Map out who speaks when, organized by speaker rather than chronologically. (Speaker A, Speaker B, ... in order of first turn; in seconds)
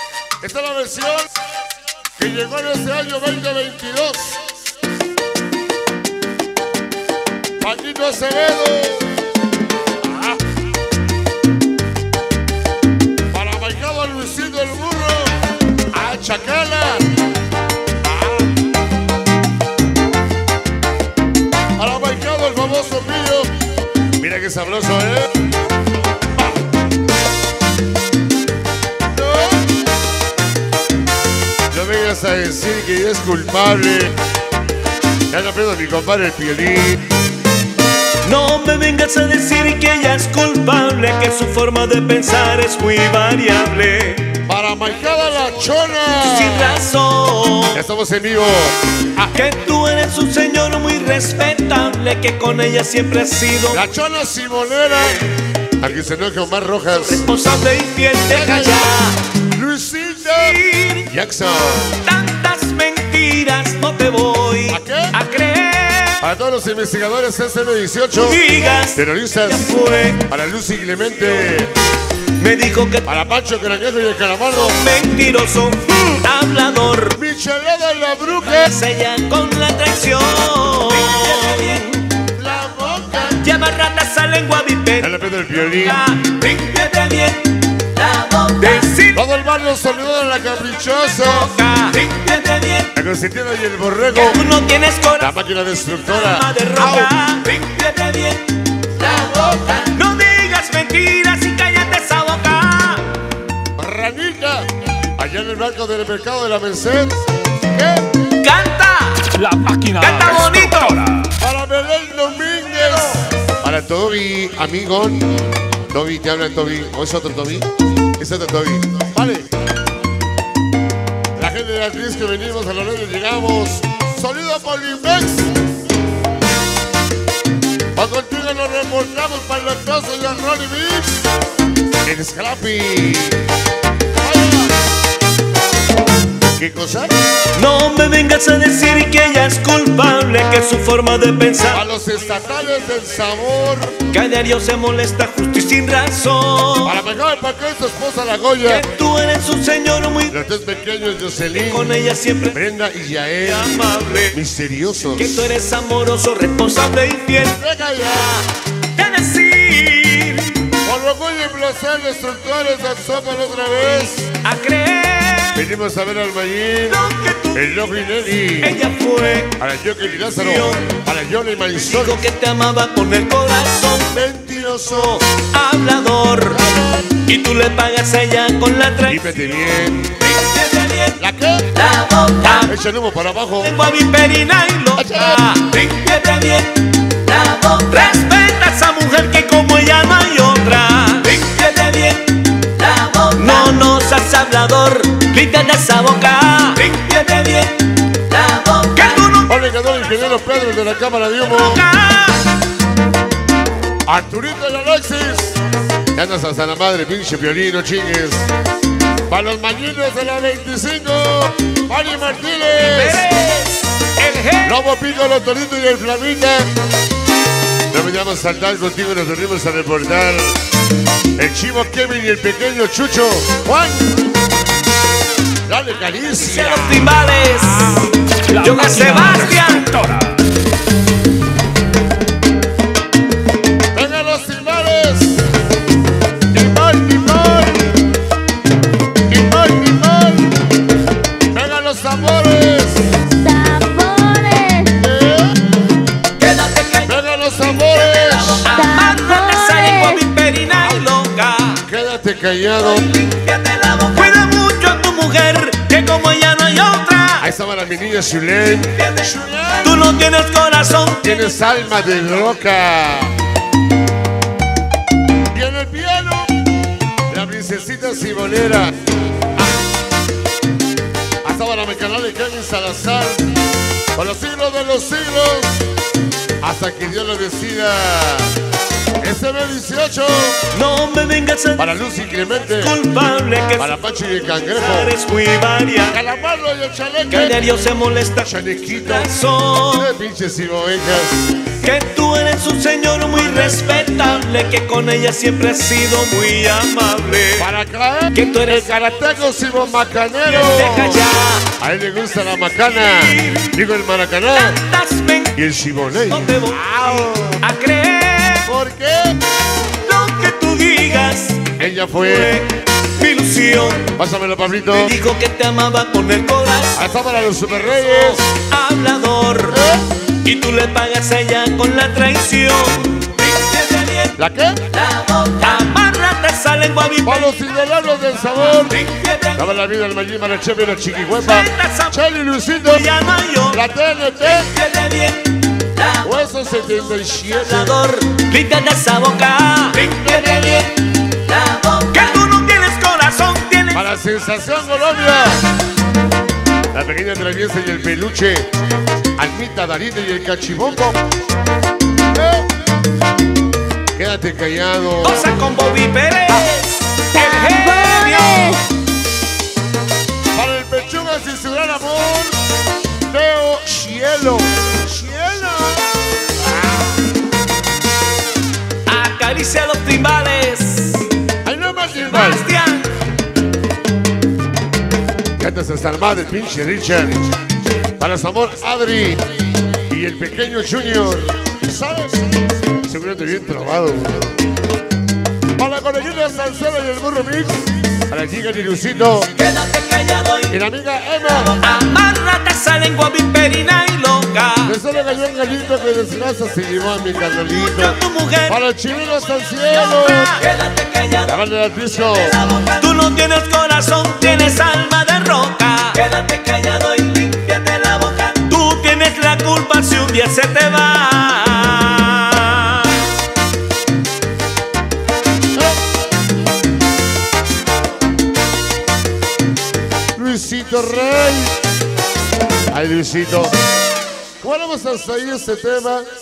Speaker A: 0.4-1.3, 2.2-4.4, 7.6-9.2, 10.0-10.4, 13.3-15.4, 15.9-17.1, 18.1-18.5, 21.8-23.5, 24.2-25.3, 31.7-34.1, 35.3-37.0, 44.4-46.8, 47.7-49.3, 53.7-55.3, 55.8-57.3, 58.2-59.0, 59.5-62.0, 64.7-65.2, 66.2-68.4, 68.9-71.7, 73.0-74.8, 77.1-78.7, 82.2-83.5, 85.0-86.0, 89.1-91.5, 92.9-94.4, 95.2-97.1, 99.0-99.7, 103.8-107.2, 107.7-108.2, 111.4-115.3, 115.9-119.5, 121.3-125.5, 128.0-131.2, 132.0-133.4, 134.2-134.8, 136.5-137.1, 141.7-143.9, 146.8-148.9, 150.3-151.9, 152.5-153.8, 154.3-155.5, 157.4-158.4, 160.8-164.3, 165.5-168.8, 169.6-172.3, 174.1-175.2, 176.5-177.1, 179.0-180.2, 181.2-181.7, 182.4-183.8, 184.9-185.4, 199.4-201.8, 204.0-205.6, 206.1-208.5, 209.3-213.3, 214.6-216.7, 217.9-220.6, 221.3-224.1, 225.7-227.2, 233.9-235.4, 236.5-237.9, 239.3-240.5, 241.5-243.1, 244.9-245.6, 247.0-248.7, 251.8-253.1, 257.4-260.1, 261.2-263.3, 265.5-266.5, 267.3-268.9, 271.4-273.5, 274.1-275.8, 276.6-278.5, 279.2-280.7, 281.8-282.9, 283.8-285.1, 286.1-287.6, 288.4-289.4, 289.9-291.4, 293.5-294.1, 297.6-304.8, 305.5-307.6, 308.6-309.4, 311.7-312.5, 314.0-315.1, 316.9-318.4, 319.7-320.1, 324.4-324.8, 327.2-329.0, 329.6-333.1, 333.7-334.7, 336.2-338.0, 340.0-340.9, 343.9-345.7, 346.9-348.7, 349.4-351.2, 352.3-352.6, 354.1-355.6, 360.5-362.5, 363.2-366.1, 371.6-372.7, 375.6-377.6, 378.2-379.4, 380.1-382.4, 383.0-384.6, 385.8-389.5, 390.7-391.8, 394.8-400.6, 401.4-402.6, 420.3-421.7, 422.9-423.7, 424.6-426.3
Speaker B: 38.2-44.4, 46.1-47.8, 49.3-53.9, 56.9-59.2, 60.2-61.1, 62.0-66.2, 68.1-70.2, 72.4-73.1, 74.5-77.2, 78.4-82.1, 83.4-85.1, 85.8-89.2, 91.1-92.9, 94.1-95.3, 96.0-103.2, 108.4-109.3, 110.0-111.0, 137.5-141.8, 144.1-147.0, 148.7-150.3, 151.6-152.6, 153.4-154.3, 155.1-160.7, 164.4-165.7, 166.9-167.7, 168.6-169.6, 170.4-170.9, 171.8-174.2, 174.9-176.7, 177.2-179.4, 180.2-181.2, 181.7-182.7, 183.6-199.5, 201.4-202.6, 212.8-214.7, 226.3-229.9, 246.4-251.8, 252.8-257.5, 258.9-261.3, 280.7-281.9, 282.8-283.9, 284.5-286.2, 287.3-290.1, 291.8-297.7, 298.3-299.0, 300.4-301.7, 303.0-303.7, 304.5-305.6, 306.3-308.7, 309.8-314.1, 314.9-317.1, 318.0-319.8, 320.4-324.4, 324.9-327.5, 328.8-329.7, 331.3-332.2, 332.8-333.8, 334.4-336.3, 337.5-340.9, 341.4-344.0, 355.2-358.8, 369.1-371.3, 372.3-373.2, 389.6-390.7, 391.5-394.9, 397.7-398.8, 399.9-401.5, 402.4-413.3
Speaker C: 109.3-111.4, 228.5-230.4
Speaker D: 243.4-245.0, 248.7-250.2, 357.2-358.8